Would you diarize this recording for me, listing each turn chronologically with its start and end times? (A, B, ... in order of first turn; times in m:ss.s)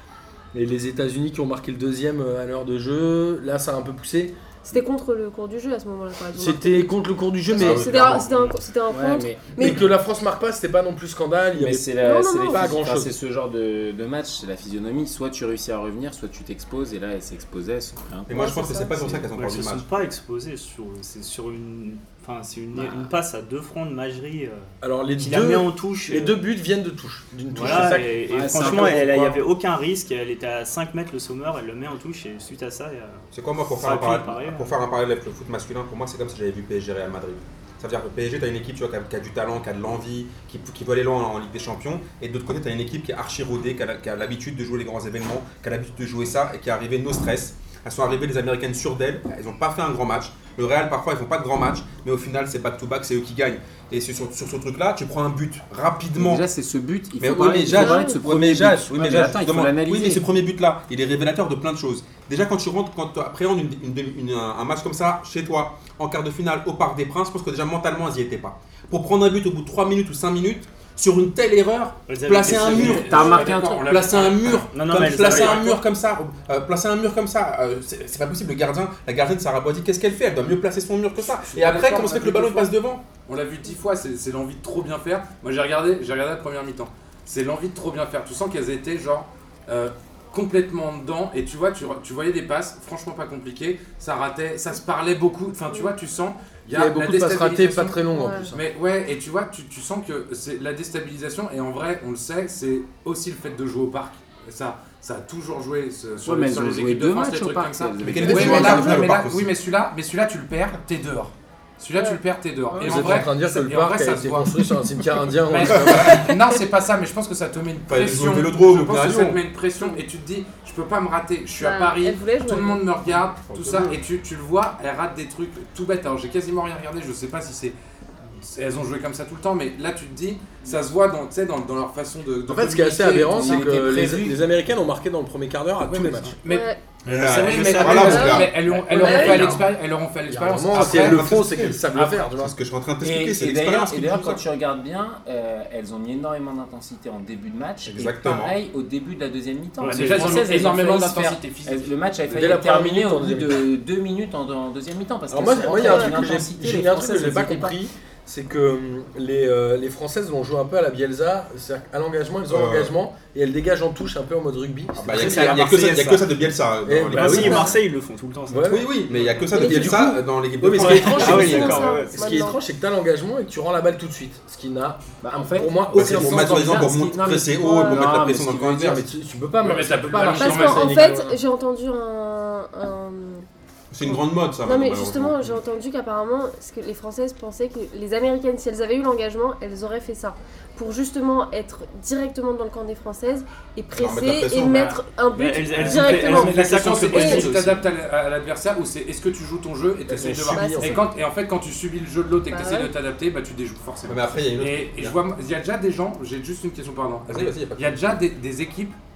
0:00.5-0:04.4 A
0:04.6-0:06.9 B
0:06.3-0:08.1 A
0:07.5-0:09.9 B
0:07.5-0:08.3 C
0:08.9-0:09.6 D
0:09.6-0:11.9 A
0:11.5-0:19.2 D
0:12.0-0:12.7 B
0:12.5-0:13.1 A
0:18.3-0:19.8 C
0:18.4-0:18.9 B
0:19.3-0:26.4 E
0:22.7-0:23.1 D
0:24.8-0:29.4 A
0:27.5-0:34.7 E
0:27.6-0:29.2 D
0:33.3-0:56.4 C
0:56.2-1:00.2 D
0:57.2-1:23.0 C
0:57.7-0:58.2 B
1:12.1-1:13.3 E
1:12.4-1:15.7 F
1:12.6-1:14.0 D
1:14.7-1:15.8 E
1:21.2-1:54.6 F
1:36.7-1:38.6 A
1:38.1-1:38.5 B
1:46.2-1:48.9 D
1:48.0-1:49.5 C
1:48.2-1:49.1 B
1:48.4-1:48.7 A
1:52.8-1:56.2 A
1:55.5-2:13.8 F
1:55.7-1:56.3 C
1:57.9-1:59.4 C
2:01.6-2:02.8 B
2:03.3-2:04.0 C
2:12.5-2:16.4 A
2:13.2-2:14.4 D
2:15.8-2:21.6 F
2:16.5-2:16.8 B
2:17.0-2:19.6 C
2:17.1-2:18.4 E
2:18.0-2:19.6 B
2:19.3-2:19.6 E
2:20.3-2:22.6 A
2:20.7-2:24.4 C
2:23.0-2:37.7 D
2:27.8-2:28.6 C
2:29.8-2:30.5 E
2:29.8-2:31.9 F
2:32.3-2:33.6 A
2:35.3-2:45.7 A
2:35.8-2:36.1 B
2:42.5-2:42.9 C
2:45.0-2:47.7 C
2:45.1-2:46.2 F
2:46.8-2:47.8 A
2:47.1-2:49.4 E
2:48.5-2:48.9 A
2:48.7-2:51.9 C
2:49.5-2:50.2 B
2:49.5-2:56.8 A
2:50.7-2:52.2 E
2:51.1-2:52.6 B
2:55.2-2:59.0 D
2:55.9-2:59.1 C
2:57.6-2:58.0 B
2:58.8-3:01.4 A
2:59.6-3:01.1 F
3:00.3-3:03.4 B
3:03.9-3:05.6 C
3:04.0-3:17.4 B
3:14.0-3:15.0 C
3:15.3-3:17.8 E
3:15.8-3:29.0 F
3:20.1-3:21.0 A
3:20.5-3:21.1 B
3:22.5-3:22.9 B
3:24.0-3:25.2 C
3:27.3-3:28.0 C